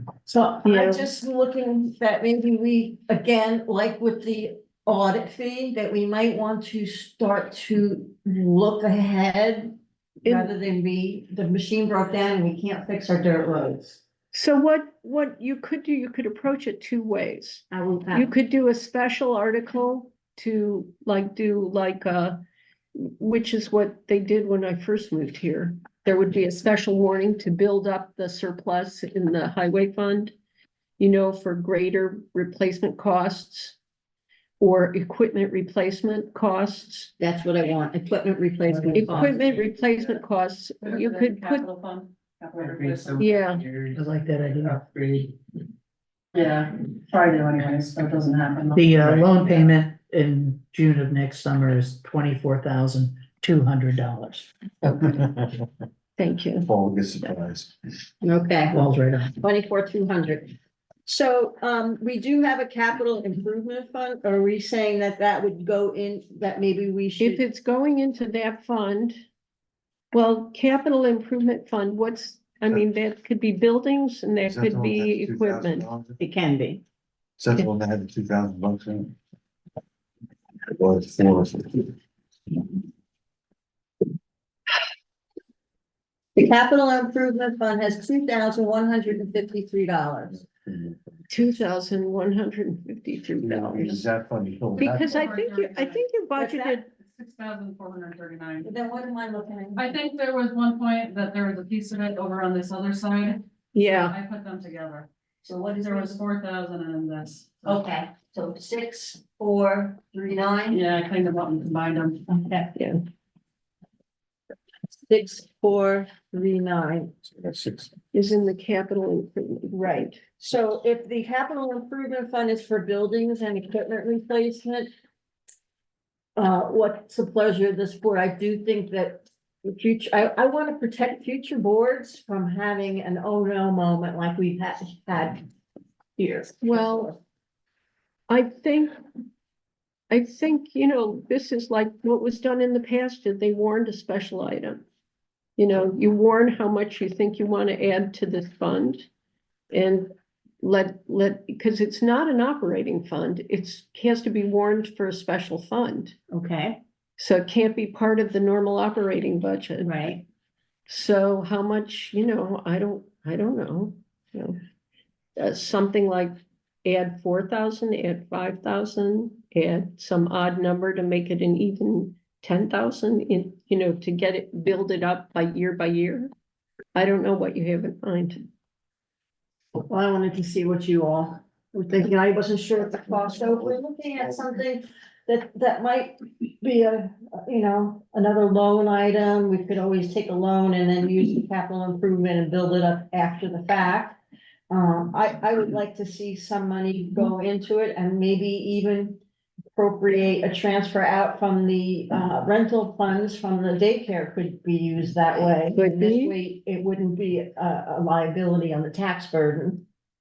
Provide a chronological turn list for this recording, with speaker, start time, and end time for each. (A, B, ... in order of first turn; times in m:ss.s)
0:00.3-0:14.0 A
0:00.6-0:01.0 B
0:10.2-0:10.5 B
0:14.3-0:22.4 B
0:17.7-0:18.3 A
0:23.0-0:30.3 B
0:31.0-0:33.8 B
0:34.6-0:37.1 B
0:37.2-0:39.4 A
0:39.0-0:41.6 B
0:40.8-0:43.3 C
0:42.6-0:45.4 D
0:43.2-0:43.6 B
0:43.9-0:44.8 E
0:46.3-0:49.2 C
0:48.7-0:54.5 E
0:54.8-0:55.5 F
0:56.2-0:56.7 B
0:56.6-0:57.7 F
0:58.2-1:00.5 A
0:58.7-0:59.3 E
1:01.0-1:07.4 A
1:07.2-1:09.2 B
1:10.1-1:15.9 B
1:14.4-1:16.2 F
1:16.2-1:16.8 A
1:17.4-1:19.2 F
1:20.7-1:22.0 F
1:26.4-1:30.4 A
1:30.5-1:31.1 F
1:31.3-1:34.0 B
1:33.4-1:35.3 F
1:34.8-1:36.9 B
1:35.0-1:36.0 C
1:36.4-1:36.8 A
1:37.0-1:38.7 C
1:38.6-1:39.9 A
1:39.8-1:45.1 C
1:43.7-1:44.1 B
1:45.4-1:46.2 A
1:45.8-1:47.7 C
1:47.6-1:50.8 A
1:50.7-1:52.2 C
1:52.3-1:52.8 A
1:55.1-1:57.1 A
1:57.2-1:57.9 F
1:58.1-2:00.2 B
1:59.7-2:04.9 A
2:06.4-2:15.4 A
2:16.2-2:17.1 A
2:16.6-2:17.2 B
2:18.3-2:19.0 B
2:20.1-2:24.8 B
2:25.6-2:29.1 B
2:29.7-2:30.1 B
2:30.6-2:36.2 B
2:36.3-2:36.8 A
2:37.2-2:40.0 B
2:39.8-2:40.2 A
2:40.9-2:44.6 B
2:45.4-2:56.3 B
2:56.9-2:58.4 B
2:59.9-3:14.2 A
3:14.7-3:19.2 A
3:19.7-3:29.8 A
3:25.7-3:26.3 B